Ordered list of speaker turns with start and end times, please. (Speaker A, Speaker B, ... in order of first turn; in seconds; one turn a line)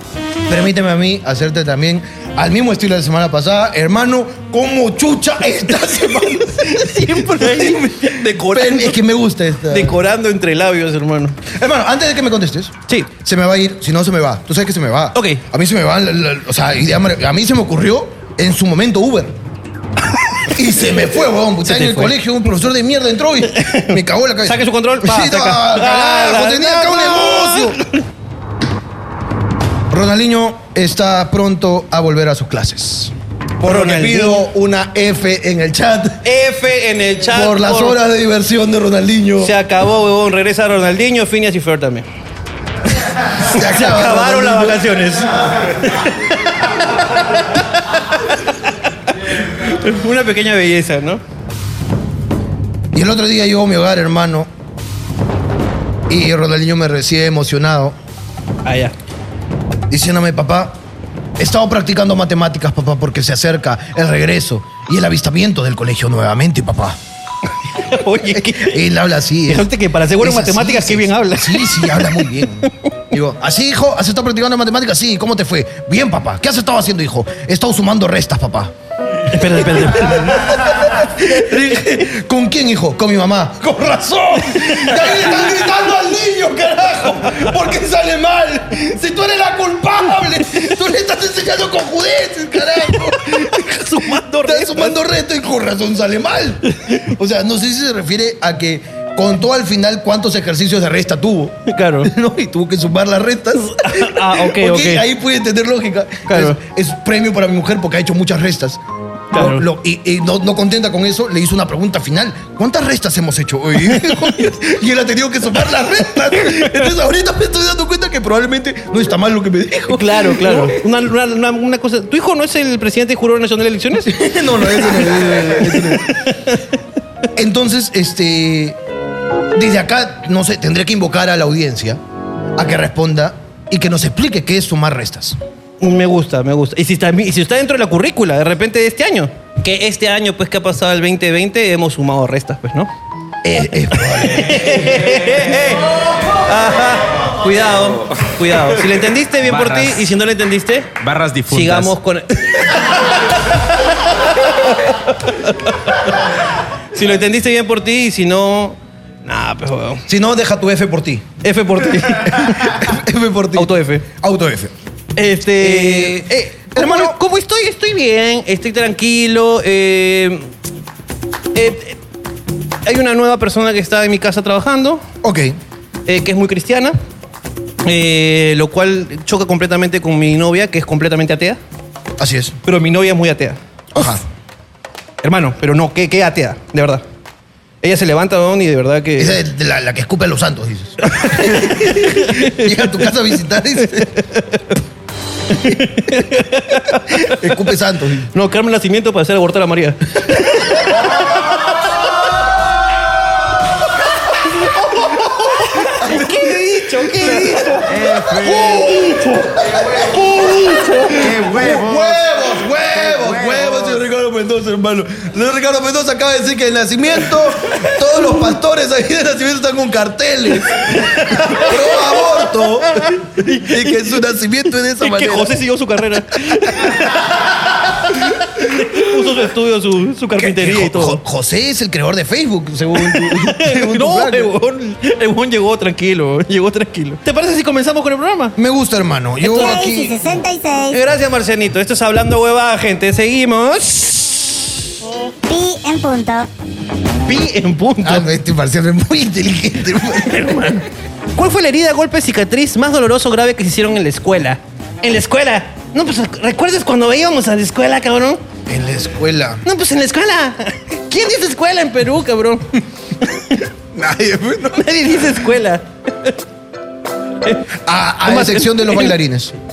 Speaker A: 0.5-10.0
Speaker B: 6.4-9.0
Speaker B: 9.6-11.4
Speaker A: 11.5-19.3
Speaker B: 15.1-15.4
Speaker A: 20.5-27.8
Speaker B: 21.6-22.2
Speaker B: 23.5-28.0
Speaker A: 29.9-36.2
Speaker B: 33.6-34.4
Speaker B: 36.2-38.0
Speaker A: 37.3-39.5
Speaker B: 39.4-42.1
Speaker A: 43.4-44.9
Speaker B: 43.4-51.2
Speaker A: 52.9-54.5
Speaker A: 56.1-58.0
Speaker B: 58.6-58.9
Speaker A: 59.9-60.8
Speaker A: 61.4-67.0
Speaker B: 67.7-68.8
Speaker A: 68.3-78.7
Speaker B: 69.5-72.7
Speaker B: 79.3-80.8
Speaker A: 79.3-108.8
Speaker B: 84.5-85.3
Speaker B: 92.9-95.0
Speaker B: 96.7-97.0
Speaker B: 101.7-102.1
Speaker B: 103.5-105.0
Speaker B: 106.3-106.6
Speaker A: 109.3-120.8
Speaker B: 109.3-109.7
Speaker B: 113.8-114.2
Speaker B: 119.9-124.1
Speaker A: 124.0-126.2
Speaker B: 124.7-126.8
Speaker A: 127.3-128.8
Speaker A: 129.5-132.0
Speaker A: 132.6-135.4
Speaker B: 135.8-142.9
Speaker A: 143.4-144.9
Speaker B: 143.9-150.9
Speaker C: 149.5-150.0
Speaker C: 151.0-151.9
Speaker B: 151.5-156.3
Speaker B: 156.9-160.1
Speaker A: 160.1-161.3
Speaker B: 161.4-162.8
Speaker A: 162.1-164.7
Speaker B: 163.5-164.1
Speaker B: 165.2-170.5
Speaker A: 165.6-167.2
Speaker B: 171.5-172.0
Speaker B: 172.8-175.0
Speaker A: 175.2-175.6
Speaker B: 176.1-176.9
Speaker B: 177.8-181.6
Speaker A: 182.2-182.6
Speaker B: 182.6-183.6
Speaker A: 183.9-184.2
Speaker B: 185.2-187.0
Speaker B: 187.8-189.4
Speaker A: 189.2-194.1
Speaker B: 191.0-193.0
Speaker B: 193.8-194.8
Speaker B: 195.5-197.6
Speaker A: 197.1-198.3
Speaker B: 198.3-202.1
Speaker B: 204.4-207.9
Speaker A: 204.8-225.6
Speaker C: 207.8-208.9
Speaker B: 208.4-209.5
Speaker B: 210.0-211.4
Speaker C: 211.1-212.3
Speaker C: 212.9-213.9
Speaker B: 220.9-224.2
Speaker B: 225.0-231.2
Speaker A: 226.5-227.1
Speaker A: 230.4-234.5
Speaker B: 232.9-238.6
Speaker A: 238.6-240.1
Speaker D: 239.4-241.0
Speaker B: 240.9-244.7
Speaker D: 245.4-246.5
Speaker B: 247.2-248.2
Speaker A: 248.0-250.7
Speaker B: 250.2-258.4
Speaker A: 258.6-259.6
Speaker B: 259.6-263.6
Speaker A: 263.9-265.0
Speaker B: 264.7-266.4
Speaker B: 267.4-267.7
Speaker A: 267.8-269.5
Speaker B: 268.2-269.1